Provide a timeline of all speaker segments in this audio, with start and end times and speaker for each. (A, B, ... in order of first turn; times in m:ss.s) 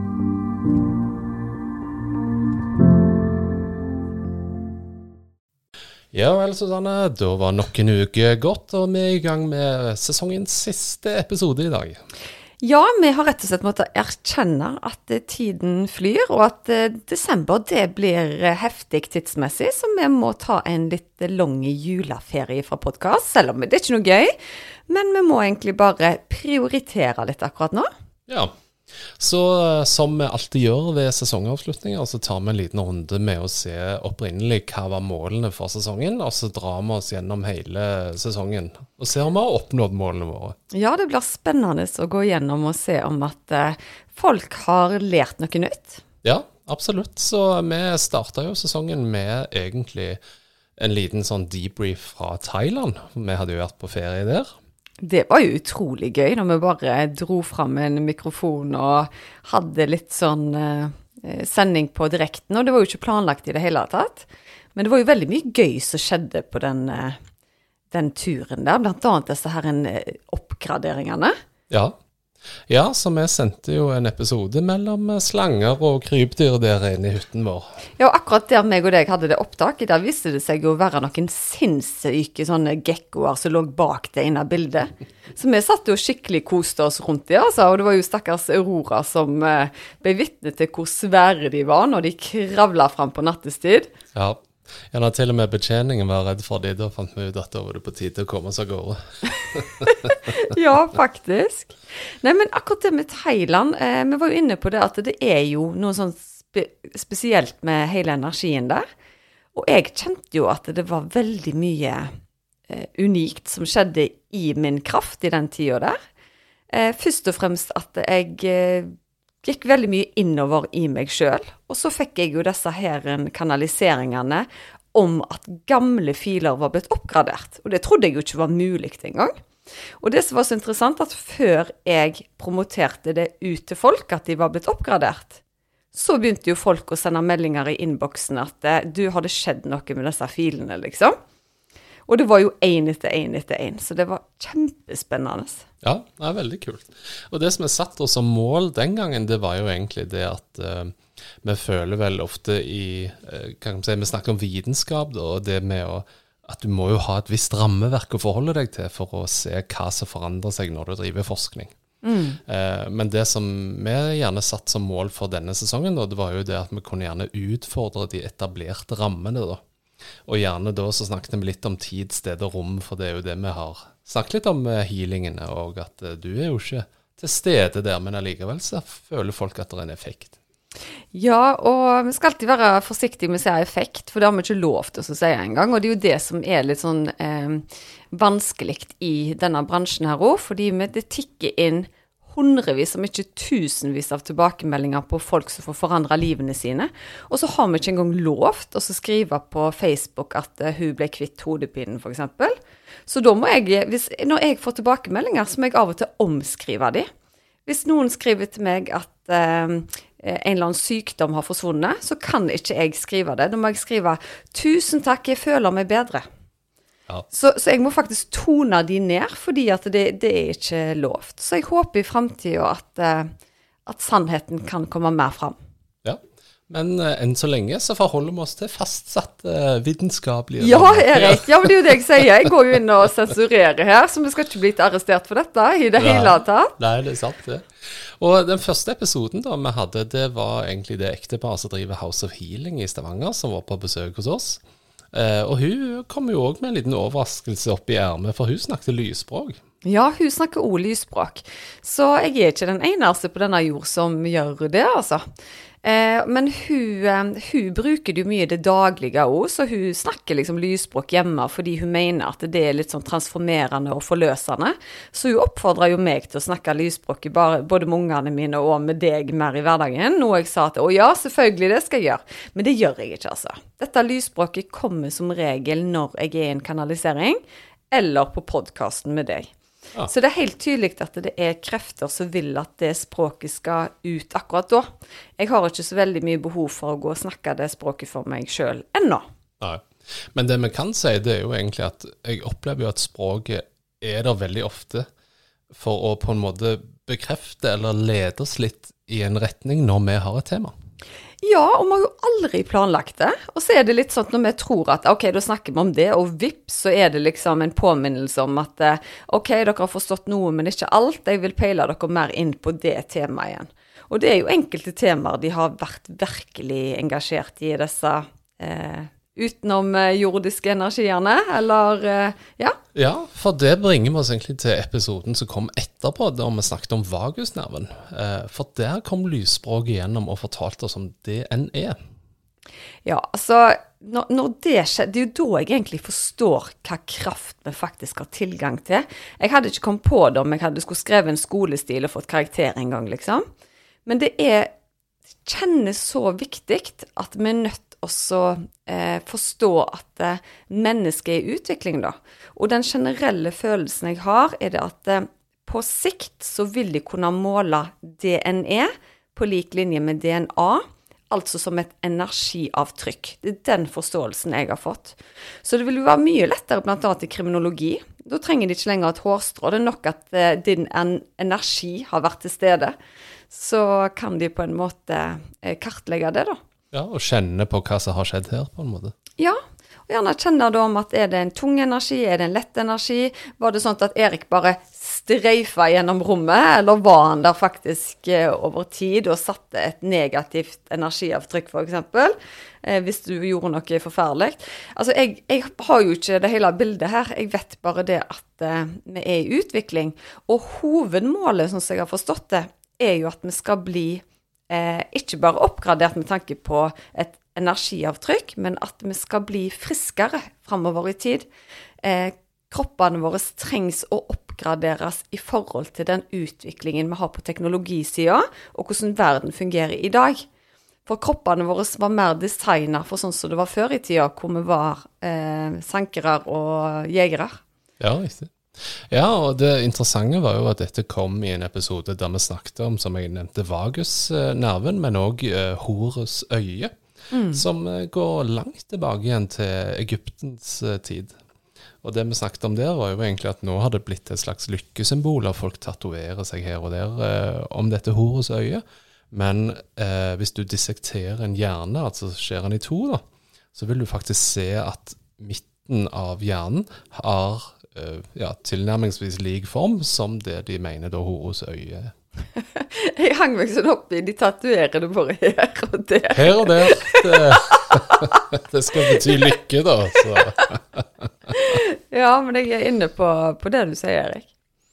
0:06.1-0:12.0 A
0:12.6-0:24.3 B
0:24.9-0:27.9 B
0:28.3-0:40.6 A
0:40.7-0:46.0 B
0:46.2-0:50.2 A
0:50.8-0:54.5 A
0:55.0-1:07.2 B
1:07.9-1:11.4 B
1:11.7-1:12.0 A
1:12.7-1:17.7 A
1:18.0-1:33.9 B
1:34.1-1:40.2 A
1:39.8-1:48.8 B
1:49.5-1:52.1 B
1:52.7-1:56.0 B
1:56.7-2:09.3 B
2:10.0-2:15.4 B
2:15.9-2:21.2 B
2:22.1-2:25.6 B
2:25.8-2:41.7 A
2:42.0-2:42.4 B
2:42.4-2:49.6 A
2:50.2-3:00.4 A
3:01.1-3:22.6 B
3:23.1-3:27.1 B
3:27.6-3:36.2 B
3:37.3-3:43.3 B
3:43.8-3:45.6 B
3:46.0-3:52.0 A
3:50.6-3:56.7 B
3:56.0-4:04.6 A
4:05.1-4:09.6 A
4:09.8-4:15.2 B
4:15.8-4:37.4 B
4:37.9-4:39.5 B
4:40.1-4:49.2 B
4:49.6-4:55.1 A
4:55.7-5:00.7 A
5:01.4-5:22.8 B
5:22.9-5:32.0 A
5:33.0-5:43.4 B
5:44.0-5:44.7 B
5:45.4-6:12.9 B
6:13.5-6:16.6 B
6:16.9-6:19.1 A
6:19.4-6:51.5 B
6:52.0-7:00.4 B
7:01.0-7:07.6 B
7:08.0-7:16.9 A
7:17.3-7:17.6 B
7:17.5-7:21.3 A
7:22.0-7:33.2 A
7:33.7-7:42.1 A
7:42.6-7:48.4 B
7:46.3-7:51.5 A
7:48.9-7:49.4 B
7:51.5-7:54.5 B